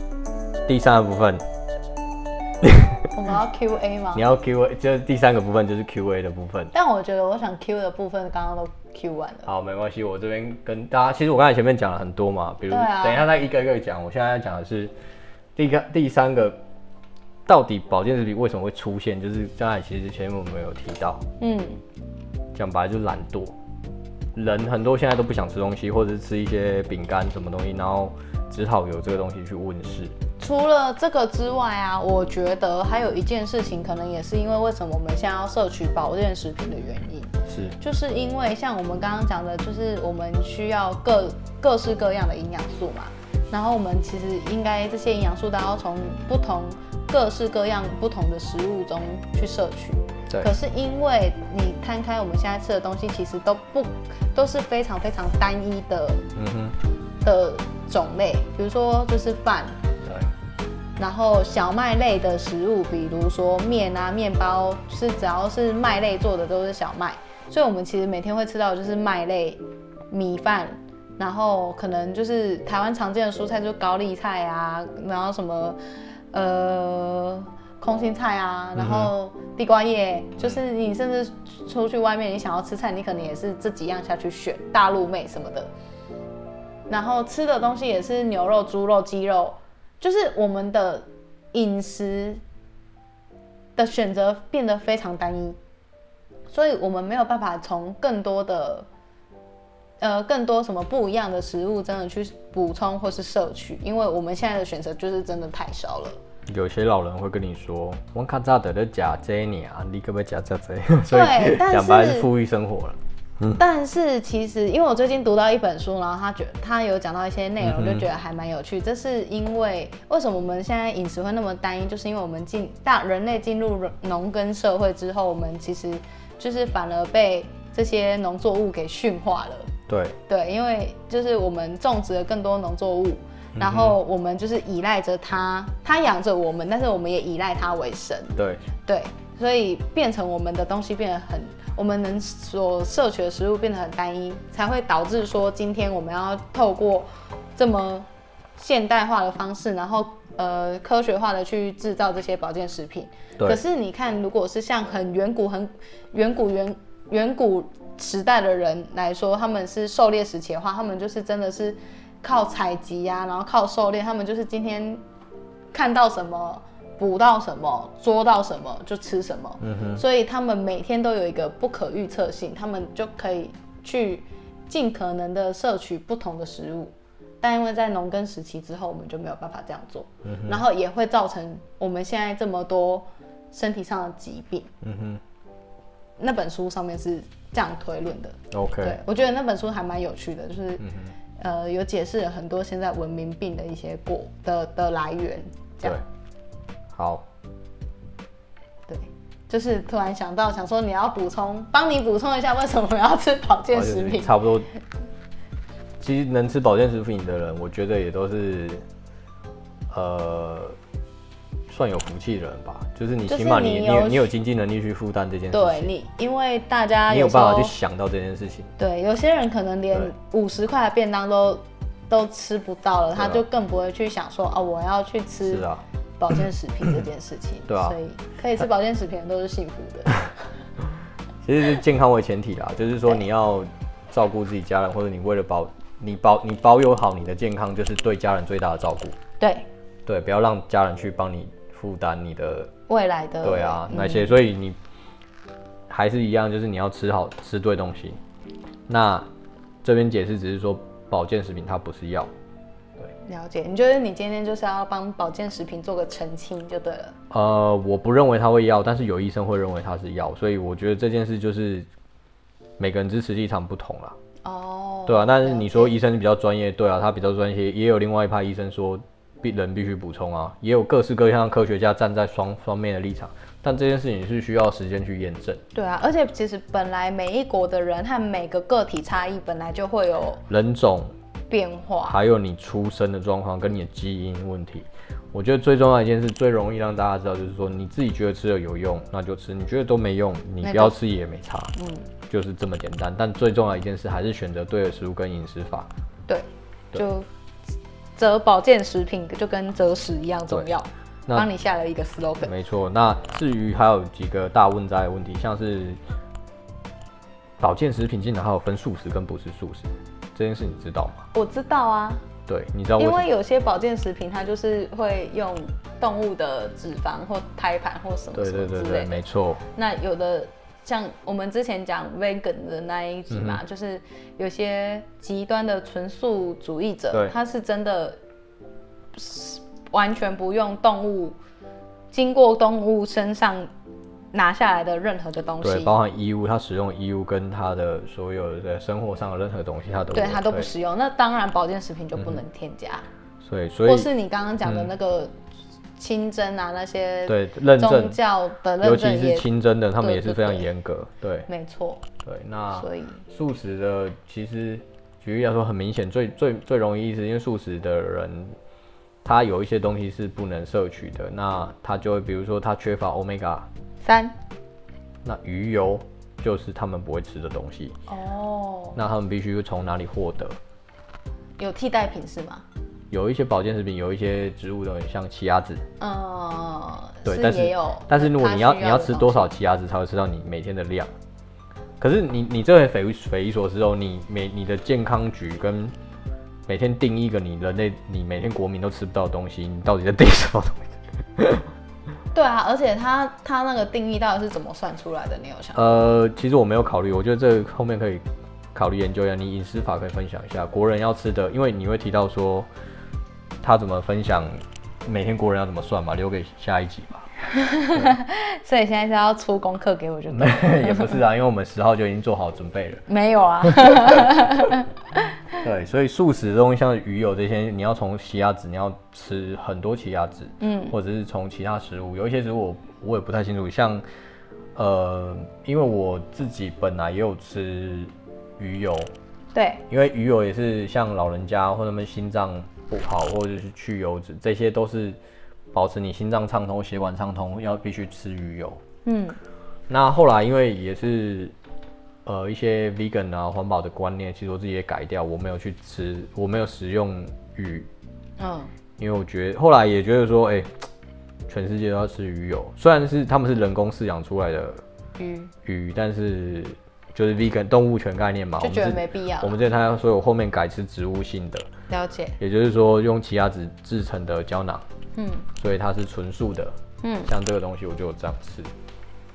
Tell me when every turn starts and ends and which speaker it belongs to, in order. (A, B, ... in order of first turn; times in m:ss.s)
0:00.7-0:01.4 A
0:02.6-0:03.0 A
0:03.1-0:04.3 B
0:04.1-0:06.7 A
0:06.7-0:09.5 B
0:09.5-0:14.9 A
0:12.7-0:13.2 B
0:15.6-0:16.6 A
0:17.5-0:21.2 A
0:21.4-0:21.8 B
0:22.5-0:23.6 A
0:24.3-0:30.2 A
0:30.4-0:56.2 B
0:37.5-0:37.8 A
0:56.4-0:56.8 A
0:57.2-0:59.8 B
1:00.0-1:00.3 A
1:01.0-1:15.8 B
1:16.3-1:25.7 B
1:18.8-1:19.1 A
1:26.9-1:32.4 B
1:33.8-1:35.6 B
1:36.5-1:38.9 B
1:40.0-1:46.2 B
1:46.5-1:53.6 A
1:51.1-1:52.3 B
1:53.6-2:09.7 B
1:57.6-1:58.1 A
2:09.9-2:10.2 A
2:10.3-2:28.1 B
2:13.6-2:14.0 A
2:18.4-2:18.6 A
2:28.6-2:45.0 B
2:45.7-3:04.7 B
2:49.6-2:50.0 A
3:00.2-3:00.6 A
3:04.8-3:05.2 A
3:06.2-3:10.8 B
3:08.5-3:09.0 A
3:10.8-3:11.2 A
3:11.4-3:16.0 B
3:17.0-3:17.3 A
3:18.9-3:24.4 B
3:23.7-3:24.7 A
3:26.0-3:28.9 A
3:29.9-3:30.8 A
3:31.7-3:35.9 A
3:33.3-3:34.3 B
3:35.5-3:37.8 B
3:37.1-3:38.7 A
3:38.8-3:45.7 B
3:43.2-3:43.4 A
3:45.5-3:45.8 A
3:46.2-3:50.3 B
3:47.7-3:48.0 A
3:51.4-3:59.2 A
3:59.4-3:59.7 B
4:00.1-4:02.7 A
4:02.9-4:04.4 B
4:03.4-4:04.8 A
4:05.9-4:08.2 A
4:08.9-4:09.3 A
4:09.8-4:12.3 A
4:13.2-4:17.2 B
4:17.3-4:21.9 A
4:22.8-4:24.2 A
4:24.4-4:26.0 B
4:25.1-4:35.6 A
4:35.7-4:40.4 B
4:40.5-4:41.1 A
4:41.5-4:42.2 B
4:42.0-4:51.7 A
4:50.6-4:51.0 B
4:51.8-4:52.1 B
4:52.3-4:55.9 A
4:56.3-4:57.3 B
4:58.2-5:02.5 B
5:02.4-5:06.0 A
5:07.6-5:11.3 A
5:11.3-5:12.2 B
5:12.5-5:13.3 A
5:13.0-5:19.2 B
5:18.3-5:19.6 A
5:19.8-5:28.2 B
5:23.3-5:23.6 A
5:29.2-5:31.4 B
5:32.1-5:33.7 B
5:34.3-5:36.0 B
5:35.6-5:40.7 A
5:40.1-5:43.1 B
5:42.2-5:42.4 A
5:43.4-5:44.1 A
5:43.9-5:45.3 B
5:44.6-5:44.9 A
5:46.0-5:49.5 B
5:47.3-5:48.2 A
5:48.8-5:51.5 A
5:50.0-5:50.7 B
5:51.5-5:52.0 B
5:52.2-5:58.6 A
5:52.7-5:53.2 B
5:59.2-6:03.7 A
6:04.0-6:04.4 B
6:05.2-6:08.0 A
6:08.1-6:09.0 B
6:09.0-6:10.6 A
6:11.6-6:12.6 B
6:13.1-6:15.8 A
6:16.0-6:19.5 B
6:17.3-6:21.1 A
6:22.0-6:26.0 A
6:26.7-6:31.7 A
6:32.3-6:36.1 B
6:35.8-6:42.7 A
6:43.6-6:47.3 A
6:47.5-6:51.2 B
6:50.3-6:53.0 A
6:53.1-6:55.6 B
6:53.6-6:54.3 A
6:55.6-7:04.0 A
7:00.6-7:01.0 B
7:04.8-7:09.1 A
7:09.5-7:09.8 B
7:09.9-7:15.2 A
7:15.7-7:18.8 A
7:19.0-7:19.4 B
7:19.9-7:21.6 A
7:22.2-7:27.9 A
7:28.4-7:28.7 B
7:29.0-7:30.8 A
7:31.5-7:34.8 A
7:35.2-7:35.5 B
7:35.6-7:41.7 A
7:38.6-7:39.6 B
7:41.9-7:42.4 B
7:42.4-7:44.8 A
7:45.2-7:45.5 B
7:45.6-7:48.7 A
7:47.0-7:47.3 B